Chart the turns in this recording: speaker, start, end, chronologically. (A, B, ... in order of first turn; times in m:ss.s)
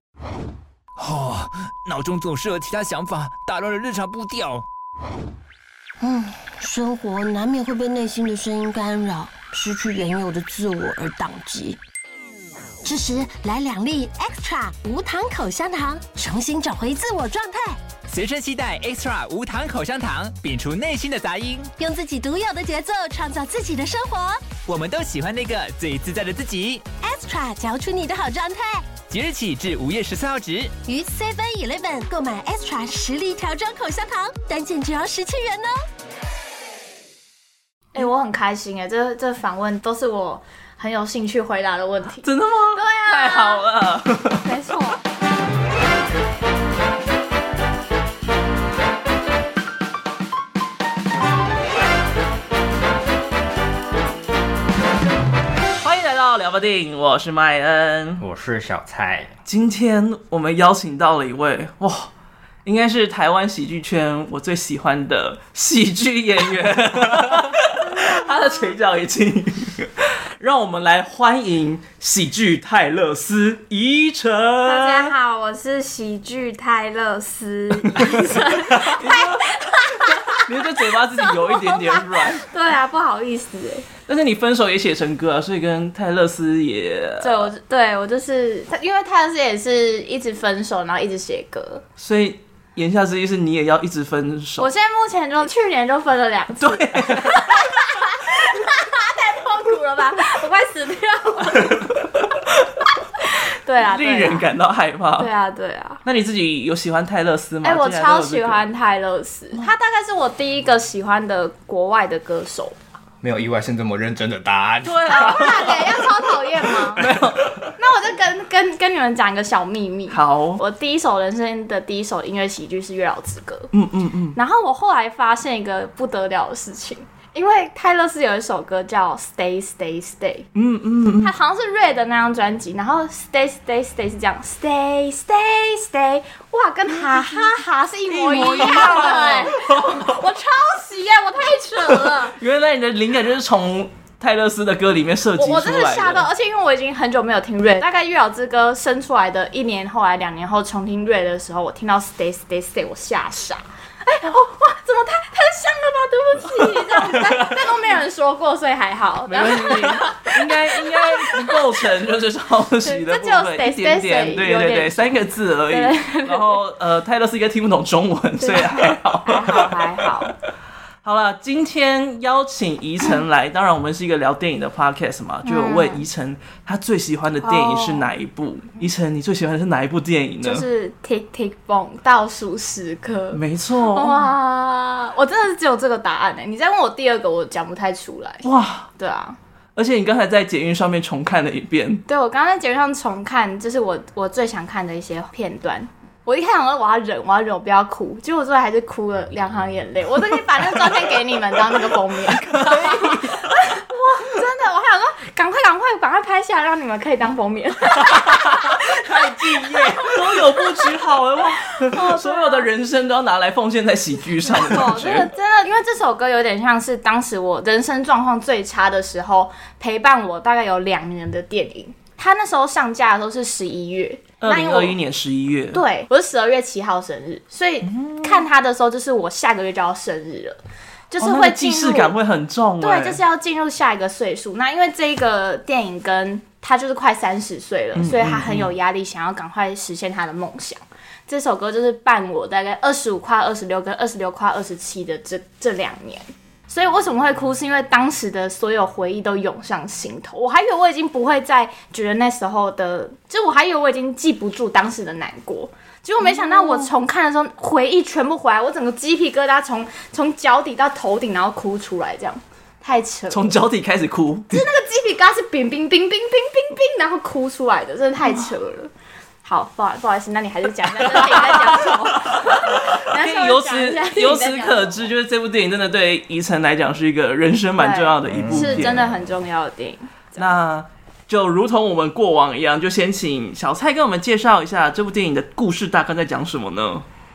0:01.0-0:04.6 A
0:06.0-0:11.8 B
0:12.8-0:17.8 B
0:18.1-0:21.7 A
0:21.8-0:24.6 B
0:24.6-0:26.9 A
0:27.0-0:28.9 B
0:29.1-0:30.8 A
0:30.9-0:35.8 B
0:37.9-0:43.6 C
0:42.2-0:44.4 D
0:44.4-0:45.0 C
0:55.8-0:58.2 D
0:58.2-0:59.3 E
0:59.5-1:02.1 D
1:02.6-1:15.1 D
1:07.8-1:08.7 C
1:14.6-1:23.9 C
1:18.7-1:22.5 D
1:24.1-1:27.5 D
1:27.2-1:31.8 C
1:32.0-1:34.7 D
1:34.6-1:41.9 C
1:36.6-1:37.6 D
1:41.6-1:42.0 D
1:43.4-1:44.5 C
1:43.8-1:45.3 D
1:45.2-1:46.0 C
1:46.0-1:48.6 D
1:47.6-1:52.8 C
1:53.2-1:55.8 E
1:54.8-1:56.0 D
1:55.1-1:57.1 C
1:56.6-1:57.7 D
1:57.0-1:57.3 E
1:57.8-2:03.7 C
2:00.1-2:00.6 D
2:03.7-2:04.4 D
2:04.4-2:10.5 C
2:10.6-2:11.3 D
2:11.2-2:22.4 C
2:18.1-2:20.2 D
2:21.9-2:26.3 D
2:25.4-2:41.6 C
2:36.4-2:37.8 D
2:39.3-2:50.2 D
2:42.8-2:45.2 C
2:45.7-2:46.6 C
2:48.4-2:50.4 C
2:51.0-3:00.7 D
2:55.4-2:56.0 C
2:57.4-2:58.1 C
3:00.4-3:03.4 C
3:03.3-3:04.3 D
3:03.9-3:09.4 C
3:08.4-3:08.9 D
3:09.8-3:12.0 D
3:12.1-3:31.0 C
3:22.4-3:23.3 D
3:28.2-3:28.8 D
3:29.6-3:29.9 E
3:30.0-3:35.3 D
3:31.7-3:32.7 C
3:34.4-3:45.0 C
3:44.4-3:45.8 D
3:45.7-3:50.6 C
3:47.8-3:48.5 D
3:51.1-3:52.1 C
3:51.2-3:53.2 D
3:52.8-4:23.6 C
3:58.0-3:58.7 D
4:16.2-4:16.9 D
4:23.3-4:24.7 D
4:24.5-4:28.9 C
4:29.4-4:35.1 C
4:31.0-4:39.0 D
4:37.8-4:40.5 C
4:38.2-4:39.3 E
4:40.4-4:47.0 D